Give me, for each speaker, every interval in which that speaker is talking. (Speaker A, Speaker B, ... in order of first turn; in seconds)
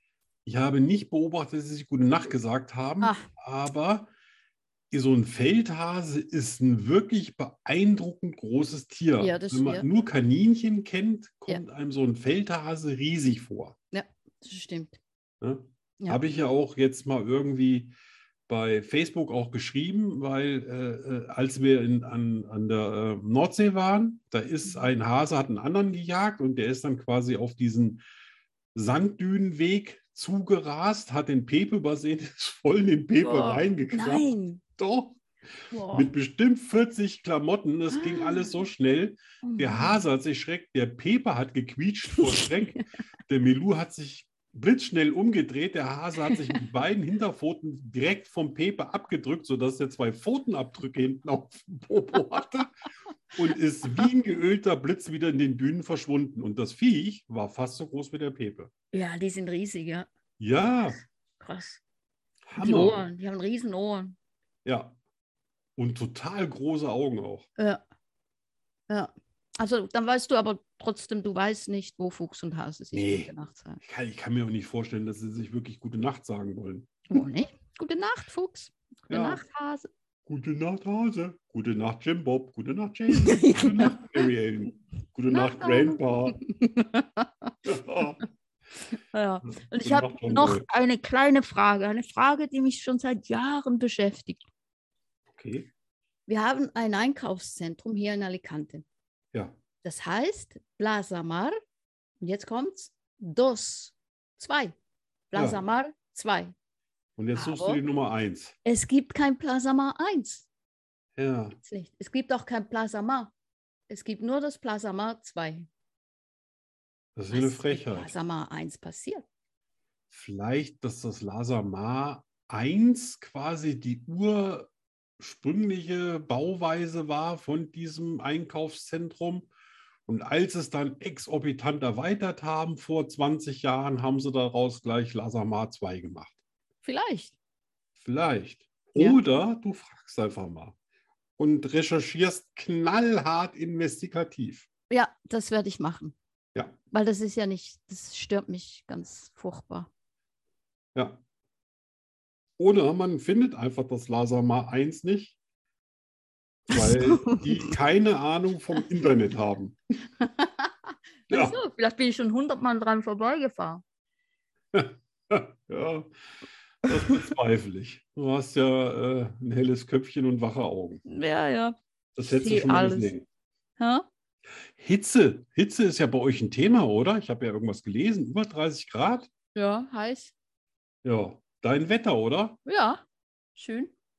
Speaker A: 0.5-4.1, 4.9-13.8, 15.4-17.9, 18.5-28.0, 28.7-35.2, 35.9-52.7, 53.3-58.7, 60.4-61.0, 62.5-63.0, 64.6-64.9, 65.8-67.5, 72.9-77.0, 79.1-79.4, 80.2-86.4, 87.6-88.2, 89.8-90.6, 95.3-95.7, 105.3-105.6, 107.2-108.5, 111.2-111.6, 117.2-118.1, 120.1-124.7, 125.2-129.5, 130.1-136.3, 138.0-140.7, 141.4-144.7, 150.9-151.2, 152.6-155.3, 156.7-159.8, 161.3-161.6, 164.7-166.1, 166.8-171.0, 172.2-173.2, 174.8-179.3, 181.0-182.6
Speaker B: 3.0-3.3, 9.2-9.9, 13.9-15.0, 33.2-34.6, 35.7-36.1, 37.9-38.5, 39.4-40.0, 42.2-42.8, 58.9-60.1, 61.4-61.8, 62.6-64.1, 68.9-73.8, 77.1-79.9, 83.1-84.2, 85.3-87.5, 89.0-94.4, 96.3-98.8, 99.8-101.5, 102.2-104.7, 105.3-106.5, 107.3-107.8, 108.6-110.5, 111.6-113.3, 113.9-115.7, 117.3-119.2, 136.8-137.3, 138.9-139.2, 144.9-146.2, 146.9-149.9, 156.7-157.8, 160.2-163.8, 171.1-173.1, 173.8-174.1, 179.5-180.3, 182.6-183.0, 183.5-183.9